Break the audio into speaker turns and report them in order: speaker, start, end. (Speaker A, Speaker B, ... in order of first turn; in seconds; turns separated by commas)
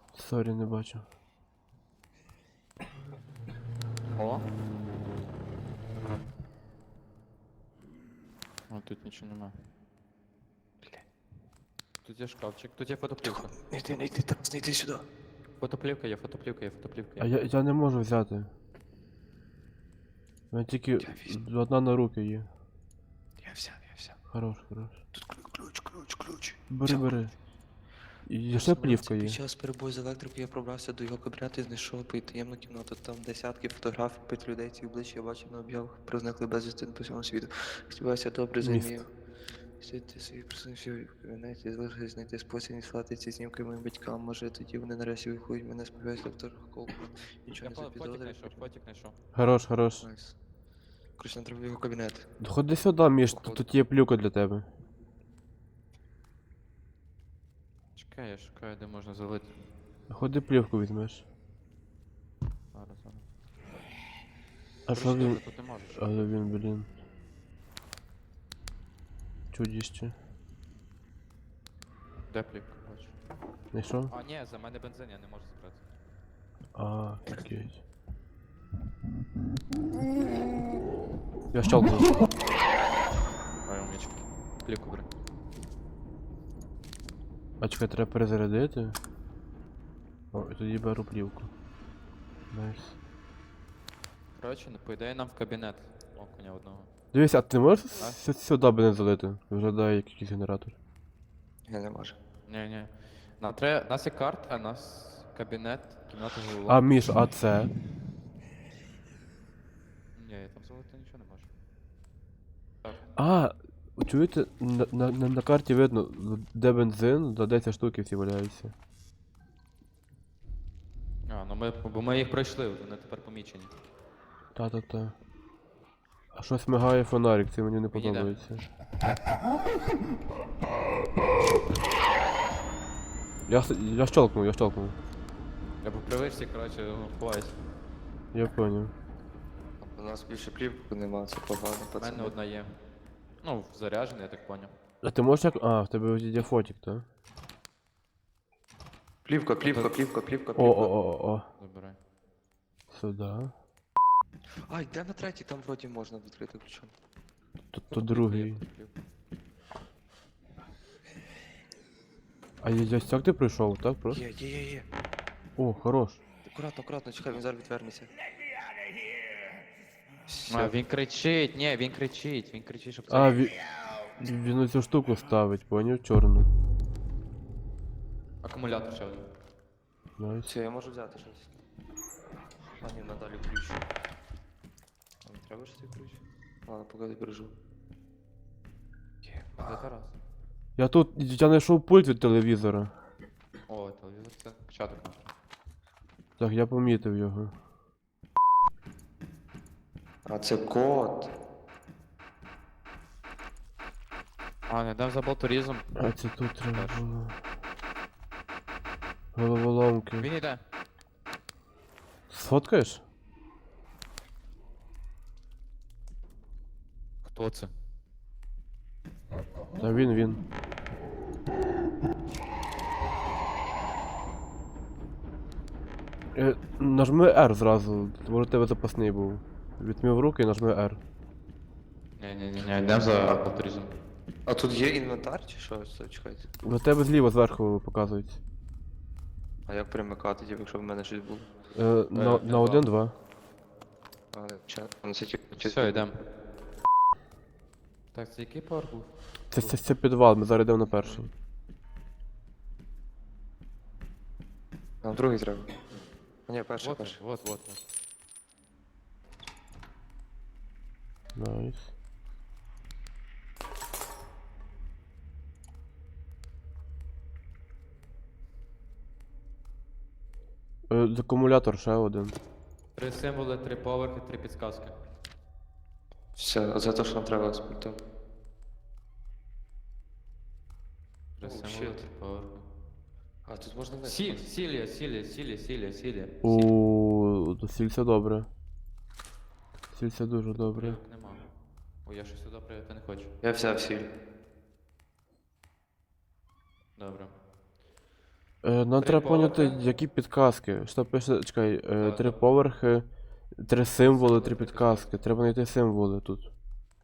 Speaker A: 0.1-1.1, Speaker B: 4.2-4.4, Speaker B: 8.7-9.6, Speaker B: 12.0-13.5, Speaker C: 13.2-15.1, Speaker B: 15.6-17.3, Speaker A: 17.2-18.5, Speaker A: 20.5-22.5, Speaker C: 21.0-21.4, Speaker C: 23.4-24.1, Speaker A: 24.3-25.0, Speaker C: 25.1-27.1, Speaker A: 26.7-27.3, Speaker A: 28.3-29.4, Speaker C: 28.5-39.1, Speaker A: 38.6-39.1, Speaker C: 39.8-48.7, Speaker B: 47.6-49.1, Speaker A: 49.3-50.0, Speaker C: 50.0-50.4, Speaker C: 51.2-52.3, Speaker A: 52.4-54.7, Speaker C: 53.3-53.6, Speaker B: 58.0-59.5, Speaker A: 60.1-61.2, Speaker B: 62.7-63.3, Speaker A: 64.9-66.9, Speaker B: 64.9-66.4, Speaker A: 69.5-70.2, Speaker B: 72.3-73.1, Speaker A: 73.7-74.1, Speaker B: 74.1-75.8, Speaker A: 76.8-77.8, Speaker A: 81.5-82.2, Speaker B: 83.7-85.1, Speaker A: 87.6-89.0, Speaker A: 90.3-91.5, Speaker A: 92.5-93.0, Speaker B: 94.3-96.9, Speaker A: 97.1-100.8, Speaker C: 101.7-102.2, Speaker B: 102.5-106.9, Speaker A: 106.7-107.7, Speaker B: 110.2-111.5, Speaker A: 113.2-118.7, Speaker B: 121.3-123.7, Speaker A: 124.5-125.2, Speaker A: 126.3-128.6, Speaker B: 127.9-128.4, Speaker A: 133.5-135.0, Speaker B: 135.8-137.6, Speaker A: 138.3-138.9, Speaker C: 139.8-142.4, Speaker B: 142.0-142.8, Speaker B: 143.4-144.7, Speaker A: 145.0-147.1, Speaker C: 149.2-150.9, Speaker A: 150.6-151.5, Speaker B: 151.6-152.0, Speaker A: 152.9-153.5, Speaker C: 154.7-156.9, Speaker A: 157.7-158.6, Speaker B: 157.9-158.9, Speaker A: 162.6-164.2, Speaker C: 164.1-164.9, Speaker A: 165.6-166.2, Speaker C: 166.4-168.1, Speaker C: 170.3-170.7, Speaker B: 170.5-173.6, Speaker A: 173.1-173.6, Speaker A: 174.2-176.5, Speaker B: 178.4-179.2, Speaker A: 180.2-180.5, Speaker C: 180.4-181.5, Speaker C: 182.8-183.9, Speaker C: 185.2-187.5, Speaker C: 189.2-189.8, Speaker B: 189.6-190.1, Speaker A: 190.8-192.9, Speaker B: 193.7-195.2, Speaker A: 196.4-197.5, Speaker C: 200.3-201.3, Speaker B: 204.7-205.9, Speaker A: 206.0-207.4, Speaker B: 206.7-207.2, Speaker A: 209.3-210.3, Speaker B: 210.2-210.6, Speaker A: 212.3-213.0, Speaker B: 217.2-217.7, Speaker A: 219.8-220.4, Speaker A: 226.3-231.0, Speaker B: 232.2-233.9, Speaker C: 233.1-233.4, Speaker C: 234.5-236.5, Speaker A: 236.6-238.4, Speaker C: 239.7-241.5, Speaker A: 241.8-243.1, Speaker B: 242.1-242.9, Speaker C: 244.3-246.0, Speaker B: 245.5-246.2, Speaker B: 248.1-249.8, Speaker A: 249.5-251.3, Speaker C: 251.0-251.3, Speaker C: 255.0-255.7, Speaker C: 256.5-257.2, Speaker B: 256.8-257.8, Speaker A: 261.4-261.9, Speaker A: 270.9-272.4, Speaker B: 273.0-274.9, Speaker C: 276.4-278.0, Speaker B: 281.4-282.6, Speaker C: 281.4-282.0, Speaker C: 283.5-284.5, Speaker B: 284.0-286.7, Speaker A: 286.4-288.5, Speaker A: 289.9-291.0, Speaker B: 290.5-291.4, Speaker B: 292.1-293.3, Speaker C: 293.4-294.1, Speaker B: 297.0-297.3, Speaker A: 298.6-306.5, Speaker B: 299.0-299.8, Speaker B: 302.0-302.5, Speaker B: 304.0-305.1